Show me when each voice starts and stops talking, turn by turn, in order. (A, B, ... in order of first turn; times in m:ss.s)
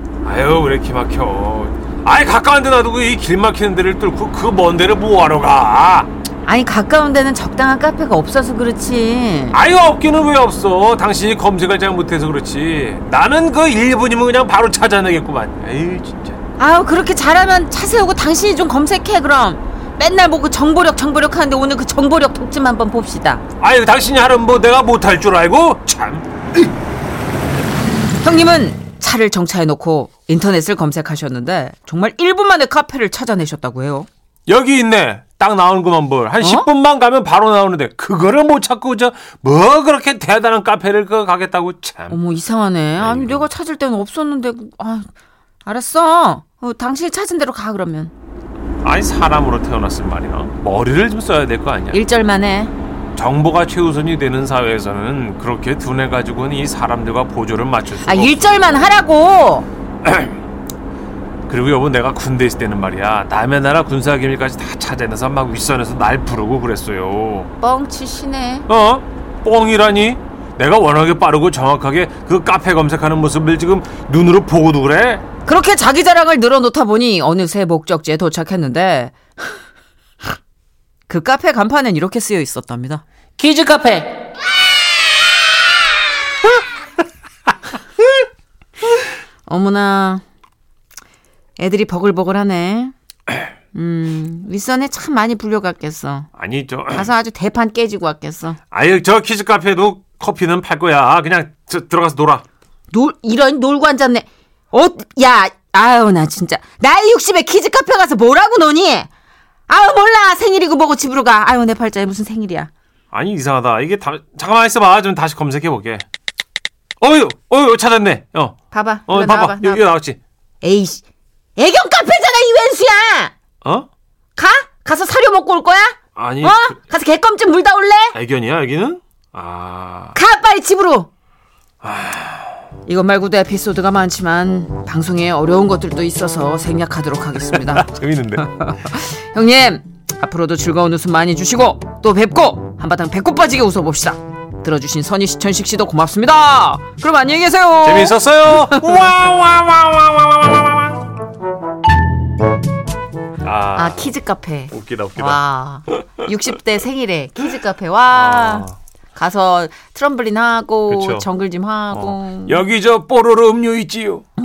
0:00.2-0:06.1 A
0:06.4-0:09.6 B
0:09.5-0:16.4 A
0:16.6-0:23.4 B
0:23.6-0:26.3 A
0:28.2-0:34.1 B
0:34.5-0:42.2 A
0:36.4-0:36.7 B
0:42.1-0:45.1 B
0:43.0-0:43.5 A
0:45.6-0:48.1 B
0:48.8-0:52.0 A
0:51.9-0:52.7 B
0:53.2-0:58.8 A
0:58.0-0:59.7 B
1:00.0-1:00.4 A
1:01.5-1:07.5 A
1:07.6-1:08.7 B
1:08.7-1:15.2 A
1:15.4-1:19.2 B
1:21.1-1:23.0 B
1:23.4-1:24.1 A
1:29.5-1:30.2 B
1:31.6-1:32.9 B
1:33.7-1:36.3 B
1:36.4-1:37.1 A
1:36.9-1:38.6 B
1:38.7-1:42.4 A
1:42.9-1:49.1 B
1:49.7-1:52.7 B
1:53.1-1:56.0 A
1:57.0-2:00.2 A
1:58.7-1:59.9 B
2:00.6-2:01.0 B
2:01.6-2:03.3 B
2:04.4-2:08.2 B
2:06.2-2:06.8 A
2:08.1-2:10.2 A
2:10.1-2:11.1 B
2:11.8-2:12.5 A
2:12.9-2:28.9 B
2:17.5-2:18.9 A
2:27.8-2:31.1 A
2:33.4-2:34.2 A
2:33.8-2:42.6 B
2:34.7-2:35.4 A
2:38.1-2:38.8 A
2:40.9-2:41.3 A
2:41.9-2:44.2 A